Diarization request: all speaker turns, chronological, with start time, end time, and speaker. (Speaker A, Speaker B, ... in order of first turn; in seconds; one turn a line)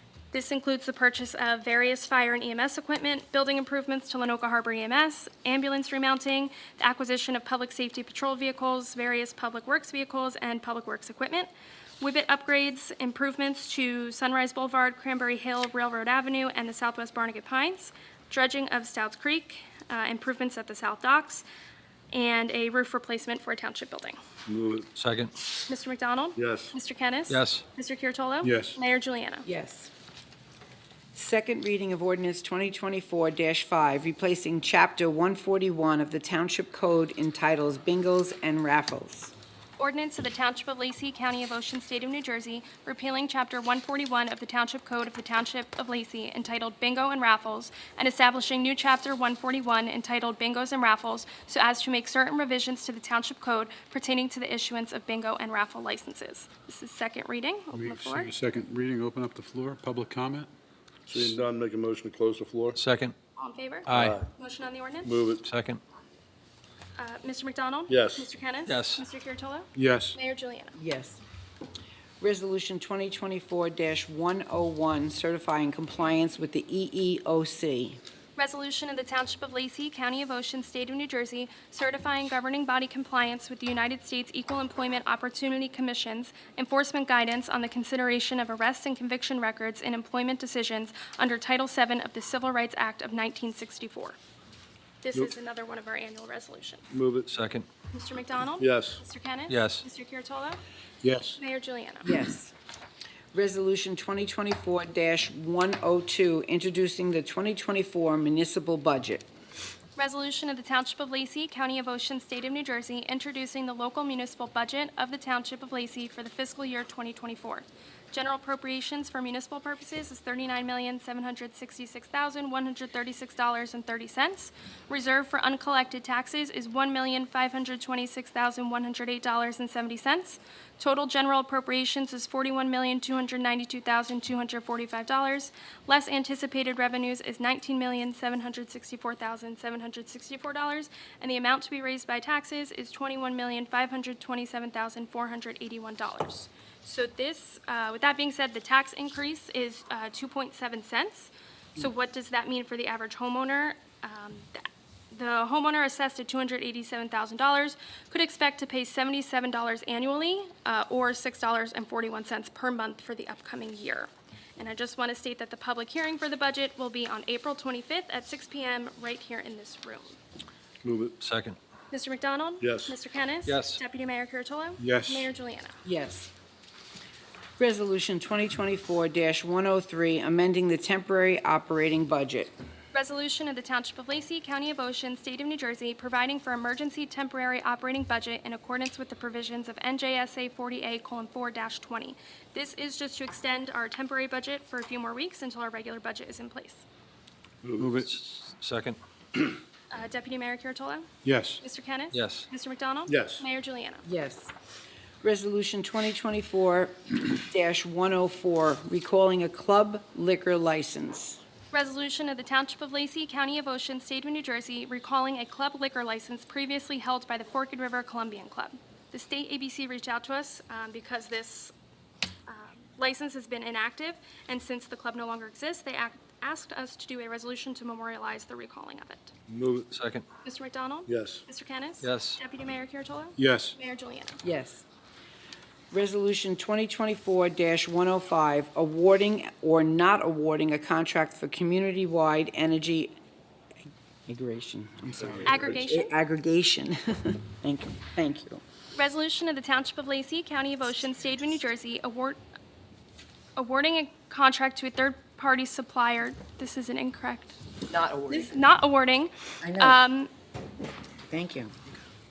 Speaker A: 0.3-21.4
Speaker A: 22.1-24.2
Speaker B: 24.5-24.9
Speaker C: 24.9-25.3
Speaker A: 25.7-29.5
Speaker B: 26.4-26.7
Speaker C: 27.3-27.6
Speaker D: 28.4-28.8
Speaker E: 29.4-29.9
Speaker E: 31.1-39.3
Speaker A: 39.8-58.3
Speaker D: 57.7-60.5
Speaker B: 61.1-62.8
Speaker C: 62.7-63.1
Speaker A: 63.4-65.1
Speaker C: 63.9-64.2
Speaker B: 63.9-64.2
Speaker B: 65.0-65.5
Speaker C: 65.4-65.8
Speaker A: 67.0-70.7
Speaker B: 67.9-68.3
Speaker C: 68.7-69.0
Speaker D: 69.7-70.2
Speaker E: 70.7-71.2
Speaker E: 72.2-78.0
Speaker A: 78.3-94.2
Speaker A: 95.0-96.9
Speaker B: 96.9-97.3
Speaker C: 97.3-97.7
Speaker A: 97.9-100.6
Speaker B: 98.6-99.0
Speaker C: 99.5-99.8
Speaker D: 101.0-101.3
Speaker A: 101.4-102.1
Speaker E: 102.0-102.5
Speaker E: 103.3-109.3
Speaker A: 110.0-170.2
Speaker B: 170.8-171.2
Speaker C: 171.2-171.6
Speaker A: 171.9-175.8
Speaker B: 172.6-172.9
Speaker C: 173.4-173.8
Speaker D: 174.8-175.3
Speaker E: 175.8-176.3
Speaker E: 177.6-182.5
Speaker A: 182.9-196.8
Speaker B: 197.6-198.0
Speaker C: 198.0-199.0
Speaker A: 199.9-201.1
Speaker D: 201.2-201.6
Speaker A: 201.6-204.0
Speaker C: 202.1-202.5
Speaker B: 203.1-203.4
Speaker E: 204.0-204.5
Speaker E: 205.2-211.4
Speaker A: 211.7-221.7
Speaker A: 222.5-229.3
Speaker B: 229.5-229.9
Speaker C: 229.9-230.2
Speaker A: 230.4-234.4
Speaker B: 231.1-231.4
Speaker C: 232.0-232.4
Speaker D: 233.4-233.7
Speaker E: 234.4-234.8
Speaker E: 235.9-243.2
Speaker E: 244.3-248.6
Speaker A: 245.4-246.1
Speaker A: 248.9-252.4
Speaker A: 253.6-257.6
Speaker E: 257.9-258.5
Speaker A: 258.3-260.3
Speaker E: 259.6-260.0
Speaker E: 261.3-261.7